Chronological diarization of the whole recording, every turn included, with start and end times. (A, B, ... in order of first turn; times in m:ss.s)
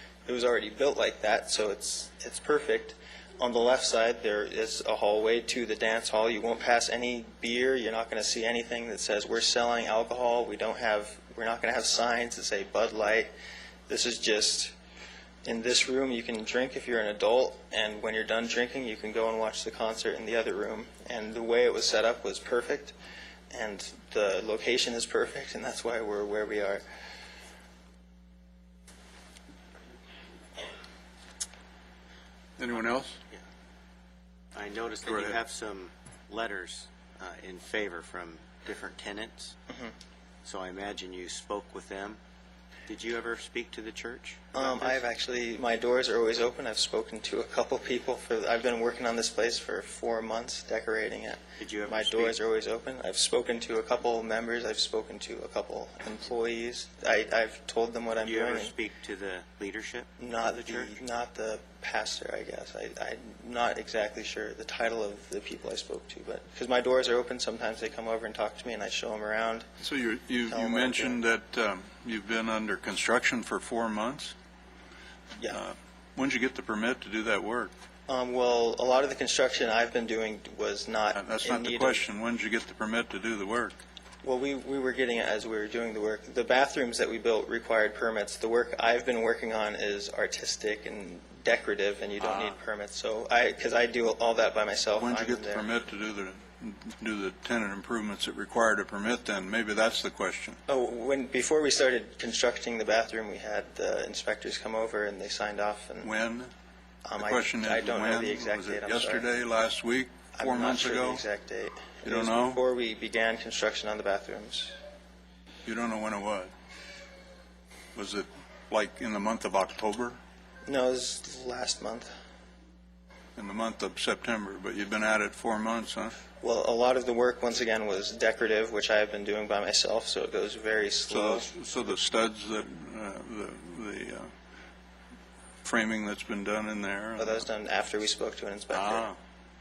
0:00.2-0:13.3 A
0:13.9-0:14.7 A
0:15.4-0:22.9 A
0:23.5-0:26.8 A
0:32.6-0:33.2 B
0:34.5-0:39.6 C
0:35.0-0:35.4 B
0:40.4-0:42.2 C
0:42.9-0:45.0 C
0:44.5-0:58.7 A
0:51.6-0:52.4 C
0:58.2-1:01.0 C
1:00.2-1:09.6 A
1:09.8-1:14.3 B
1:10.5-1:11.2 A
1:15.5-1:17.7 B
1:18.1-1:22.0 A
1:21.1-1:23.8 B
1:24.2-1:35.7 A
1:32.2-1:32.5 B
1:35.0-1:40.6 B
1:40.7-1:46.1 A
1:46.0-1:46.5 B
1:47.0-1:49.2 A
1:47.2-1:51.2 B
1:50.3-1:54.7 A
1:52.0-1:52.6 B
1:55.6-1:56.5 B
1:57.9-2:00.2 B
2:00.6-2:02.1 A
2:03.4-2:06.2 B
2:06.4-2:11.5 A
2:11.1-2:14.3 B
2:15.6-2:17.4 B
2:17.2-2:19.1 A
2:18.7-2:19.2 B